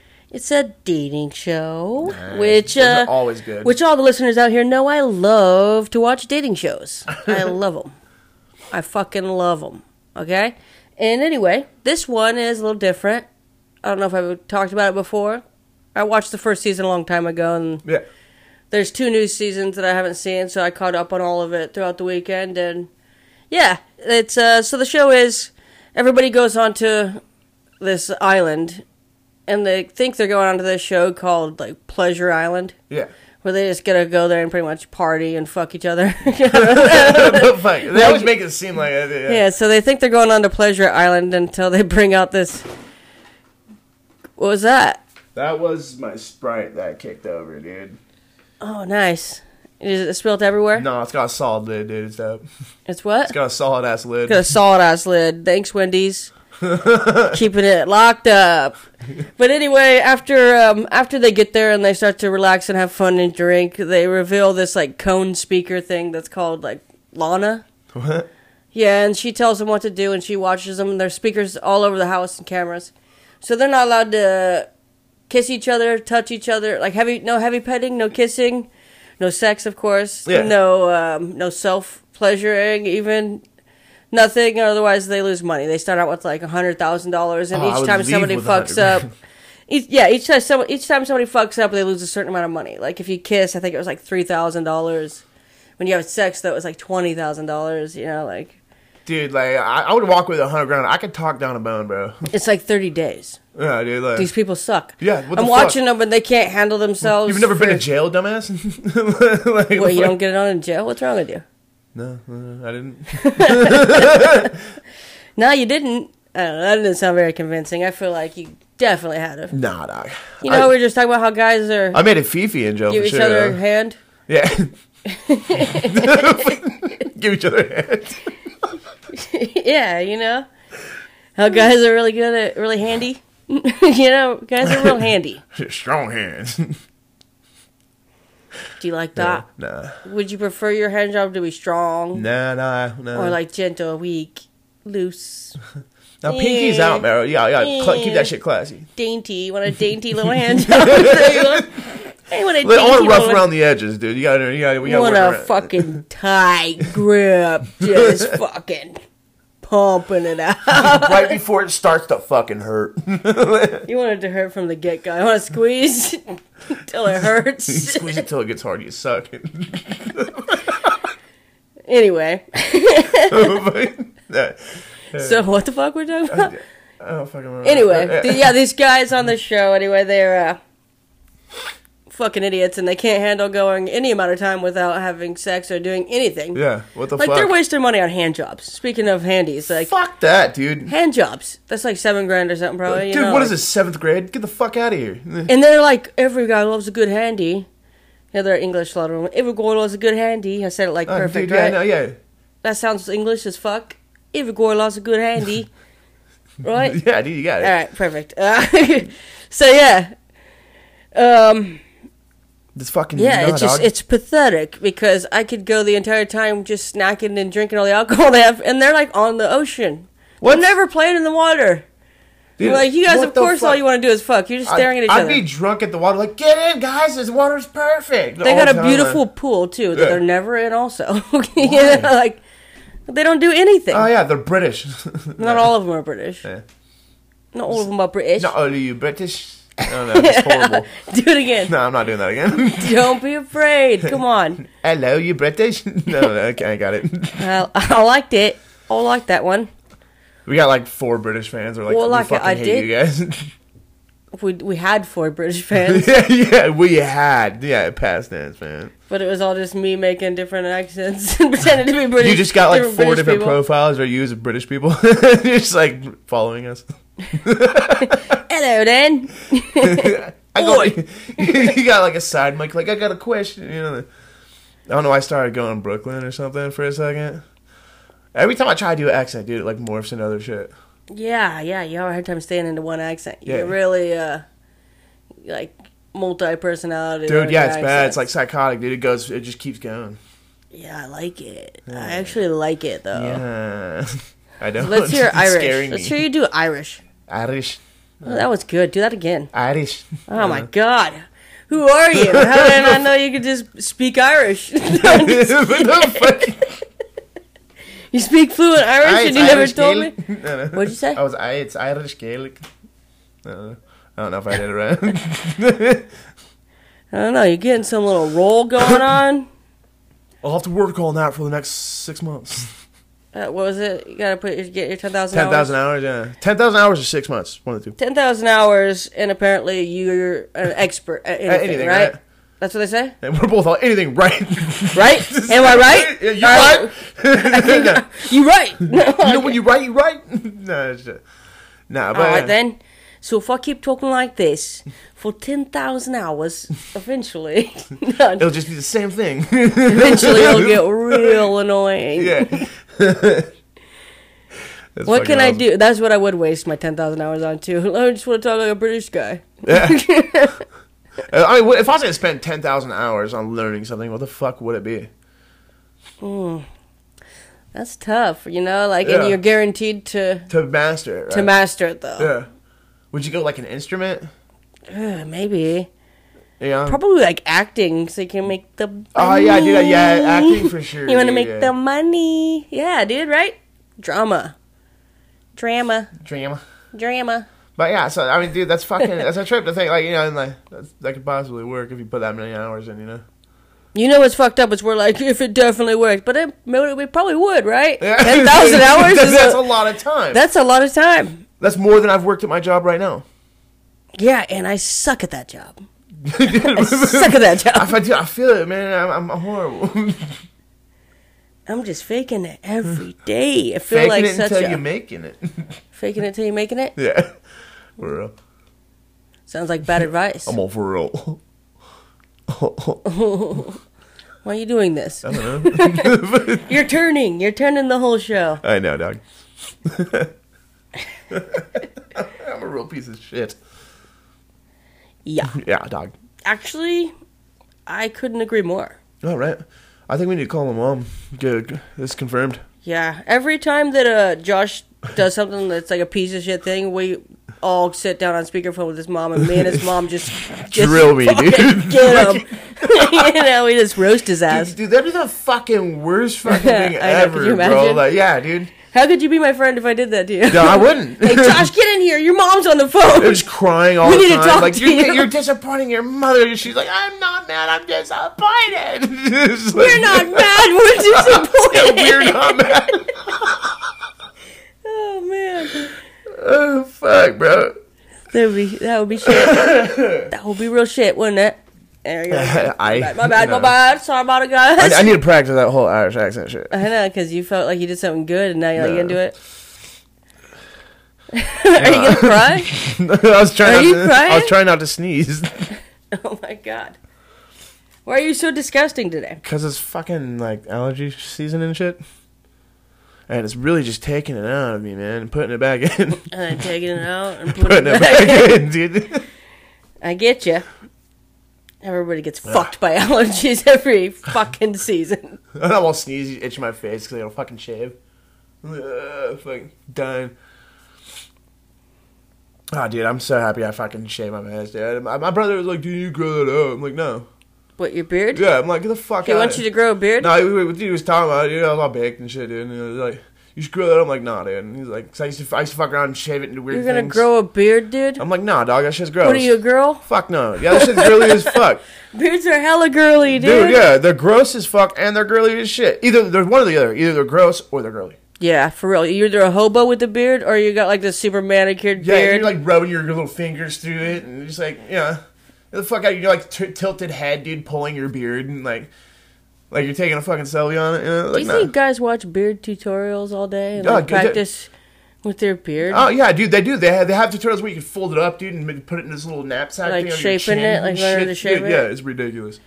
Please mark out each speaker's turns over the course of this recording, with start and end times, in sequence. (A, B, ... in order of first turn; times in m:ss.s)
0:00.3-0:03.1 A
0:02.0-0:03.7 B
0:03.6-0:07.9 A
0:08.7-0:13.2 A
0:13.8-0:15.4 A
0:15.9-0:17.8 A
0:18.7-0:22.9 A
0:23.5-0:27.2 A
0:27.8-0:28.8 A
0:29.5-0:32.7 A
0:33.4-0:38.3 A
0:36.5-0:39.4 B
0:39.2-0:42.6 A
0:44.4-0:45.0 A
0:45.3-0:48.0 B
0:48.6-0:50.9 A
0:50.8-0:52.4 B
0:52.9-0:53.3 A
0:53.2-0:54.4 B
0:54.3-0:56.3 A
0:56.6-0:57.4 B
0:57.3-0:58.8 A
0:59.4-1:07.6 A
1:07.9-1:08.3 B
1:08.7-1:14.7 A
1:15.3-1:23.4 A
1:20.2-1:20.5 B
1:24.1-1:29.1 A
1:27.5-1:29.1 B
1:29.7-1:35.2 A
1:35.8-1:38.6 A
1:39.0-1:42.2 B
1:42.3-1:43.4 A
1:43.5-1:44.3 B
1:44.2-1:47.8 A
1:45.0-1:45.8 B
1:47.0-1:50.1 B
1:49.8-1:51.4 A
1:51.9-1:54.6 B
1:53.1-1:54.5 A
1:55.4-1:59.6 A
1:59.5-2:00.7 B
2:00.4-2:02.0 A
2:01.9-2:03.6 B
2:02.9-2:04.0 A
2:04.3-2:04.7 B
2:05.0-2:06.6 A
2:05.5-2:08.7 B
2:09.1-2:10.5 A
2:11.4-2:15.4 A
2:14.6-2:15.0 B
2:15.5-2:16.8 B
2:18.8-2:19.4 A
2:19.2-2:20.0 B
2:20.0-2:22.2 A
2:22.1-2:23.4 B
2:23.1-2:25.6 A
2:26.2-2:28.9 B
2:26.2-2:28.3 A
2:29.0-2:31.8 A
2:30.5-2:31.8 B
2:32.3-2:33.5 A
2:32.6-2:35.9 B
2:34.8-2:39.0 A
2:37.8-2:38.3 B
2:39.6-2:41.4 A
2:40.7-2:43.8 B
2:43.8-2:48.2 A
2:47.7-2:51.1 B
2:51.9-2:53.6 A
2:53.2-2:55.4 B
2:55.1-2:56.6 A
2:56.3-2:58.5 B
2:57.6-3:00.6 A
3:02.1-3:06.6 A
3:06.5-3:07.5 B
3:07.2-3:09.9 A
3:09.8-3:10.9 B
3:10.9-3:13.6 A
3:12.9-3:15.5 B
3:15.5-3:17.7 A
3:18.3-3:21.8 A
3:21.1-3:22.2 B
3:22.6-3:25.7 A
3:26.6-3:27.0 A
3:26.8-3:27.7 B
3:27.6-3:30.1 A
3:31.1-3:31.8 A
3:32.7-3:33.9 B
3:33.1-3:41.8 A
3:40.4-3:40.7 B
3:42.6-3:43.8 B
3:42.6-3:45.4 A
3:44.6-3:49.2 B
3:48.4-3:52.4 A
3:49.9-3:50.2 B
3:51.6-3:52.1 B
3:53.1-3:54.1 A
3:53.9-3:55.7 B
3:55.4-3:56.4 A
3:57.5-3:58.5 A
3:58.4-4:00.9 B
3:59.8-4:01.7 A
4:01.6-4:03.1 B
4:02.6-4:04.6 A
4:04.6-4:07.5 B
4:07.4-4:09.7 A
4:10.4-4:13.5 B
4:11.9-4:12.9 A
4:14.3-4:16.2 A
4:15.8-4:18.9 B
4:19.1-4:23.6 A
4:22.2-4:28.4 B
4:28.0-4:31.8 A
4:29.8-4:34.1 B
4:34.9-4:37.4 B
4:38.3-4:40.7 B
4:41.1-4:44.4 A
4:43.4-4:43.7 B
4:45.4-4:48.2 A
4:47.3-4:50.2 B
4:50.7-4:53.4 A
4:51.9-4:52.4 B
4:53.1-4:56.2 B
4:54.8-4:57.0 A
4:57.3-4:58.4 B
4:58.2-4:59.5 A
4:59.5-5:00.7 B
5:00.3-5:06.5 A
5:02.1-5:03.0 B
5:04.9-5:06.8 B
5:08.1-5:10.1 A
5:09.0-5:12.6 B
5:10.7-5:11.2 A
5:13.4-5:16.1 B
5:17.1-5:19.5 A
5:20.4-5:22.7 B
5:23.3-5:25.7 A
5:25.3-5:28.0 B
5:28.0-5:33.2 A
5:31.4-5:32.2 B
5:33.2-5:38.1 B
5:34.9-5:39.6 A
5:38.9-5:41.2 B
5:41.9-5:42.5 B
5:42.1-5:48.5 A
5:48.4-5:51.5 B
5:49.8-5:52.7 A
5:52.2-5:53.5 B
5:55.0-5:55.6 B
5:55.0-6:00.6 A
5:59.6-6:00.0 B
6:01.3-6:05.1 B
6:06.2-6:06.7 A
6:07.7-6:10.5 A
6:09.0-6:09.4 B
6:10.5-6:11.5 B
6:11.3-6:12.3 A
6:12.2-6:12.5 B
6:13.1-6:14.3 B
6:14.9-6:15.9 A
6:16.6-6:17.0 B
6:16.8-6:24.6 A
6:19.1-6:21.7 B
6:25.6-6:26.1 A
6:26.2-6:26.6 B
6:26.9-6:27.4 A
6:27.8-6:33.2 B
6:33.9-6:39.6 A
6:38.0-6:40.4 B
6:40.3-6:41.4 A
6:41.6-6:43.2 B
6:44.2-6:45.8 A
6:46.2-6:50.4 B
6:46.4-6:47.9 A
6:51.7-6:54.8 A
6:53.9-6:55.8 B
6:55.9-6:57.0 A
6:57.0-6:57.3 B
6:58.0-6:58.3 B
6:59.5-7:00.6 A
7:00.4-7:01.4 B
7:02.5-7:03.0 B
7:03.0-7:03.8 A
7:04.4-7:08.6 A
7:05.2-7:06.7 B
7:08.6-7:09.2 B
7:09.8-7:10.3 B
7:11.3-7:13.6 B
7:15.2-7:15.6 A
7:15.5-7:16.1 B
7:16.4-7:17.1 A
7:17.8-7:19.0 A
7:19.2-7:22.6 B
7:22.8-7:34.7 A
7:29.4-7:29.9 B
7:30.4-7:33.4 B
7:34.5-7:38.7 B
7:36.4-7:38.0 A
7:38.8-7:43.5 A
7:40.5-7:41.7 B
7:43.2-7:53.7 B
7:44.0-7:45.3 A
7:49.7-7:53.1 A
7:54.8-7:55.9 A
7:56.3-7:57.7 B
7:58.3-8:05.2 A
7:59.2-8:00.3 B
8:02.3-8:03.7 B
8:04.8-8:06.7 B
8:06.7-8:09.4 A
8:08.8-8:09.2 B
8:11.3-8:12.7 A
8:11.8-8:15.7 B
8:13.6-8:14.5 A
8:16.1-8:17.0 A
8:18.0-8:19.4 A
8:19.4-8:22.0 B
8:23.3-8:26.3 B
8:26.3-8:28.6 A
8:27.5-8:29.2 B
8:30.0-8:30.6 A
8:31.8-8:35.4 A
8:32.4-8:32.7 B
8:35.5-8:38.0 B
8:38.6-8:40.3 B
8:42.7-8:47.3 B
8:47.8-8:48.5 A
8:48.3-8:49.6 B
8:49.2-8:50.3 A
8:50.2-8:57.2 B
8:56.7-8:58.2 A
8:58.2-8:59.5 B
8:59.2-9:00.0 A
9:00.0-9:01.8 B
9:00.7-9:01.6 A
9:02.1-9:03.9 A
9:03.3-9:08.2 B
9:08.4-9:12.5 A
9:12.0-9:15.2 B
9:15.7-9:18.9 B
9:19.7-9:21.7 B
9:21.3-9:24.7 A
9:23.8-9:24.4 B
9:25.2-9:26.1 A
9:25.9-9:32.6 B
9:29.8-9:31.8 A